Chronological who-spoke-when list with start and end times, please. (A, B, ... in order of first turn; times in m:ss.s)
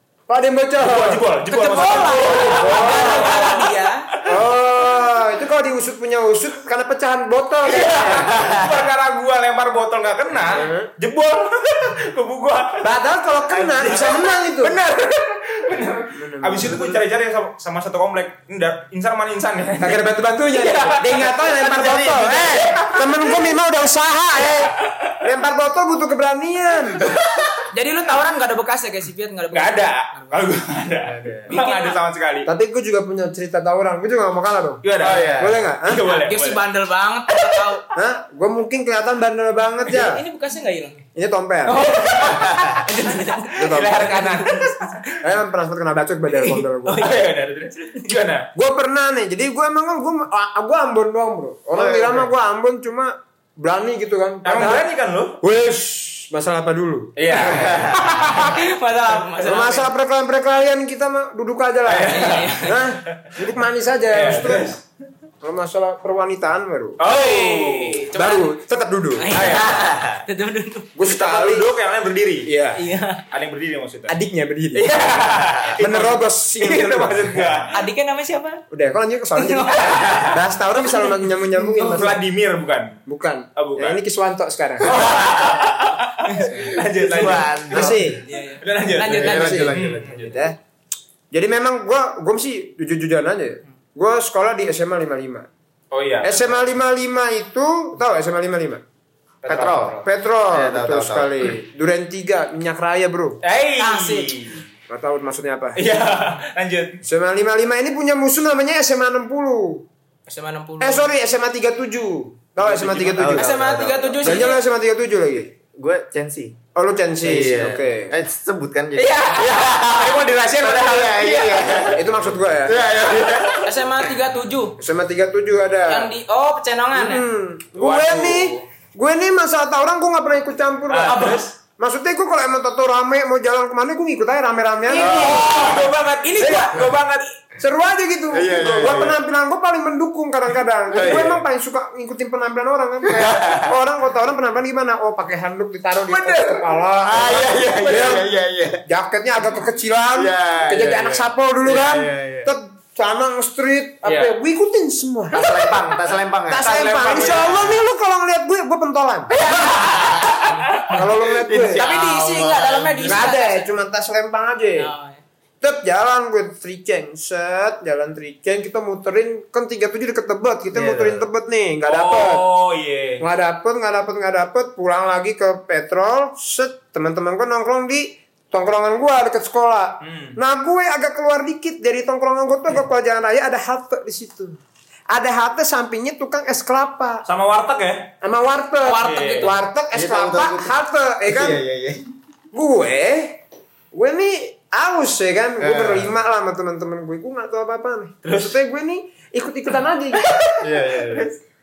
0:00.3-0:03.4 A
0:00.8-0:04.2 B
0:01.5-0:04.0 C
0:04.3-0:08.3 A
0:07.7-0:12.9 B
0:08.3-0:08.7 D
0:10.5-0:10.9 A
0:12.8-0:14.8 A
0:13.6-0:14.2 D
0:13.8-0:23.4 B
0:16.1-0:16.9 A
0:16.6-0:16.9 D
0:19.8-0:27.1 A
0:21.4-0:22.8 D
0:24.5-0:25.1 B
0:27.0-0:27.4 B
0:27.7-0:30.5 C
0:29.5-0:32.5 B
0:31.0-0:31.5 D
0:31.5-0:32.0 C
0:32.5-0:34.8 A
0:34.8-0:36.6 B
0:35.0-0:35.6 D
0:35.4-0:36.0 A
0:36.2-0:37.8 C
0:38.0-0:40.2 A
0:39.9-0:41.1 C
0:41.2-0:41.8 A
0:41.7-0:45.2 C
0:41.8-0:42.6 B
0:42.3-0:42.8 D
0:43.6-0:44.2 A
0:43.6-0:45.1 B
0:45.2-0:47.1 A
0:46.3-0:47.2 C
0:46.9-0:48.5 B
0:48.5-0:54.9 A
0:51.7-0:52.3 D
0:54.4-0:55.4 B
0:55.4-0:58.3 A
0:57.2-0:58.5 B
0:57.4-0:58.1 D
0:58.2-0:59.8 C
0:59.4-1:04.8 A
1:01.9-1:03.4 B
1:02.1-1:02.8 C
1:04.1-1:04.8 B
1:05.4-1:07.0 A
1:07.0-1:08.0 B
1:07.0-1:08.5 C
1:08.1-1:09.3 A
1:09.2-1:10.9 C
1:09.3-1:09.8 B
1:09.4-1:10.2 D
1:10.9-1:11.7 A
1:11.0-1:12.5 B
1:12.5-1:12.8 A
1:12.8-1:13.2 C
1:13.3-1:14.2 B
1:14.1-1:14.9 A
1:14.7-1:17.8 B
1:15.8-1:17.5 A
1:17.7-1:18.6 C
1:18.7-1:22.2 A
1:19.4-1:20.3 C
1:19.8-1:20.4 B
1:20.8-1:21.2 C
1:21.8-1:23.0 B
1:23.1-1:25.1 A
1:23.6-1:24.0 B
1:24.8-1:25.7 D
1:24.8-1:30.4 B
1:26.3-1:27.4 C
1:27.0-1:28.0 D
1:27.7-1:28.2 A
1:28.2-1:29.8 C
1:29.0-1:30.5 D
1:29.2-1:29.7 A
1:30.3-1:30.6 A
1:31.3-1:35.5 A
1:35.9-1:36.6 B
1:36.2-1:38.8 A
1:39.4-1:40.0 B
1:39.5-1:41.3 D
1:40.0-1:43.4 A
1:43.4-1:44.6 B
1:43.8-1:44.5 C
1:44.9-1:45.8 A
1:45.8-1:47.0 B
1:47.0-1:49.8 A
1:50.3-1:51.1 C
1:50.8-1:55.5 A
1:52.6-1:53.3 B
1:53.1-1:54.5 D
1:53.3-1:54.6 C
1:55.3-1:56.6 D
1:56.8-1:58.1 A
1:57.2-2:03.7 D
1:59.0-2:02.0 B
2:02.0-2:02.8 A
2:03.6-2:04.8 C
2:04.8-2:06.1 A
2:05.9-2:07.2 C
2:06.9-2:15.5 A
2:07.8-2:08.6 B
2:10.9-2:11.5 B
2:14.9-2:16.8 C
2:14.9-2:17.3 B
2:16.4-2:16.9 A
2:17.6-2:28.3 A
2:18.3-2:19.2 D
2:20.9-2:21.4 D
2:23.0-2:23.7 D
2:26.1-2:26.8 B
2:27.0-2:28.8 D
2:28.9-2:35.8 A
2:30.2-2:32.5 D
2:34.0-2:34.3 B
2:35.3-2:37.7 D
2:36.5-2:39.4 A
2:36.6-2:37.8 B
2:39.4-2:43.1 D
2:39.4-2:41.1 B
2:40.9-2:41.8 A
2:41.8-2:43.2 B
2:41.8-2:43.7 C
2:43.1-2:44.9 A
2:44.8-2:45.2 C
2:45.6-2:52.4 A
2:50.7-2:51.2 D
2:51.8-2:53.2 B
2:53.2-3:04.6 A
3:00.0-3:00.4 B
3:05.1-3:07.2 A
3:07.3-3:08.1 B
3:08.2-3:11.6 A
3:08.8-3:09.5 C
3:09.0-3:09.5 B
3:09.9-3:10.7 D
3:11.3-3:12.0 D
3:12.5-3:13.4 A
3:13.9-3:20.4 A
3:15.6-3:16.1 D
3:18.2-3:18.6 B
3:20.6-3:21.4 D